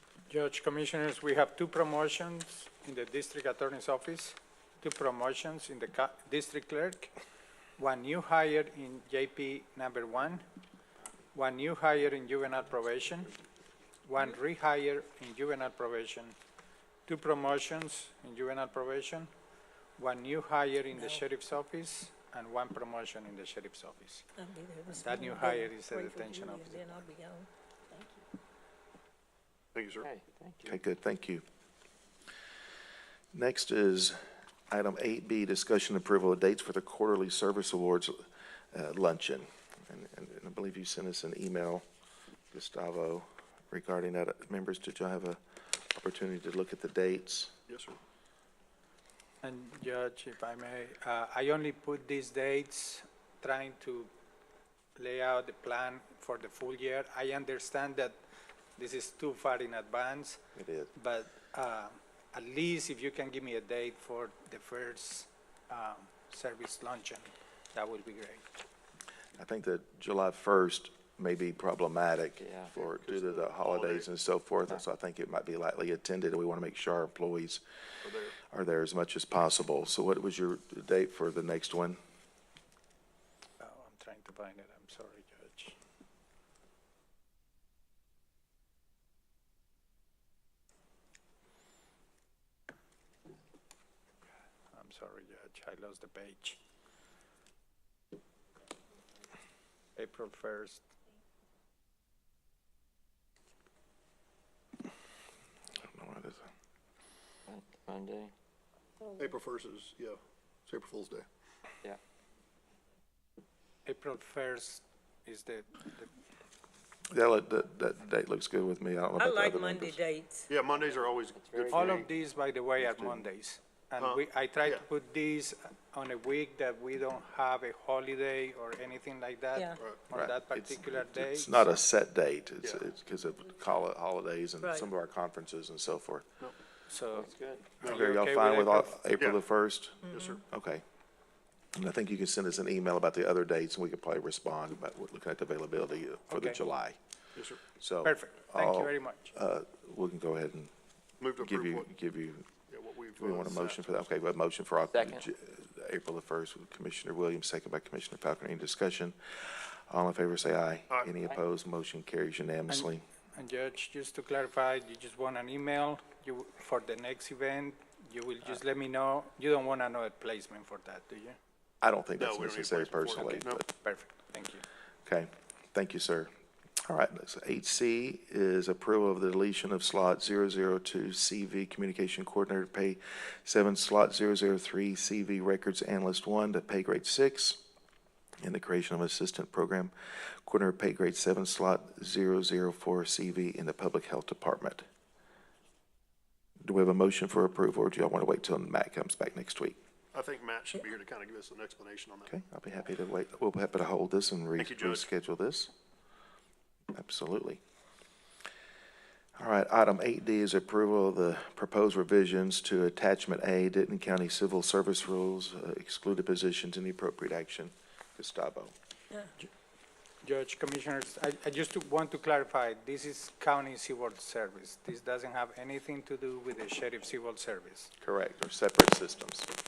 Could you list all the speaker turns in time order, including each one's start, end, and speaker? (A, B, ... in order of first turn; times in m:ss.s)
0:00.3-0:07.1 A
0:07.8-0:10.4 A
0:11.3-0:13.3 A
0:14.0-0:16.4 A
0:17.1-0:19.3 A
0:20.0-0:24.2 A
0:21.0-0:21.2 B
0:24.4-0:27.5 B
0:24.9-0:27.0 A
0:29.7-0:30.1 C
0:30.0-0:30.8 D
0:30.6-0:31.4 E
0:33.3-0:41.8 E
0:42.5-0:45.4 E
0:45.9-0:47.6 E
0:47.7-0:48.0 C
0:49.4-0:54.1 A
0:55.0-0:58.2 A
0:58.8-1:00.4 A
1:00.6-1:00.9 E
1:00.9-1:08.4 A
1:09.4-1:17.6 E
1:12.4-1:12.7 D
1:12.7-1:14.1 C
1:18.0-1:18.4 C
1:18.4-1:22.0 E
1:23.6-1:25.8 A
1:34.7-1:36.6 A
1:40.0-1:40.8 A
1:45.8-1:46.5 E
1:47.5-1:48.3 D
1:49.2-1:51.2 C
1:53.8-1:56.1 A
1:57.1-2:00.0 E
1:59.2-2:00.5 B
2:00.5-2:02.1 C
2:01.4-2:02.0 D
2:01.7-2:11.8 A
2:02.8-2:03.2 E
2:04.0-2:04.8 C
2:09.5-2:09.8 B
2:10.1-2:16.3 E
2:14.6-2:14.9 B
2:16.9-2:17.3 A
2:17.1-2:17.7 D
2:17.8-2:19.0 A
2:17.8-2:20.8 E
2:20.1-2:20.4 B
2:20.1-2:20.4 C
2:21.7-2:27.0 E
2:26.3-2:26.6 A
2:27.4-2:27.6 C
2:27.8-2:30.7 E
2:28.0-2:29.3 A
2:31.2-2:31.9 C
2:31.4-2:32.5 E
2:32.7-2:34.1 C
2:33.2-2:43.0 E
2:34.9-2:35.2 D
2:42.7-2:51.4 A
2:51.8-2:53.6 E
2:52.2-2:53.6 C
2:53.2-2:54.6 A
2:55.0-2:56.3 E
2:56.8-3:07.6 E
3:08.4-3:09.9 E
3:10.4-3:14.8 E
3:16.6-3:19.8 E
3:20.1-3:22.3 C
3:22.3-3:25.7 E
3:24.6-3:25.1 C
3:26.9-3:27.6 E
3:29.4-3:38.7 E
3:40.2-3:47.9 A
3:48.0-3:49.5 E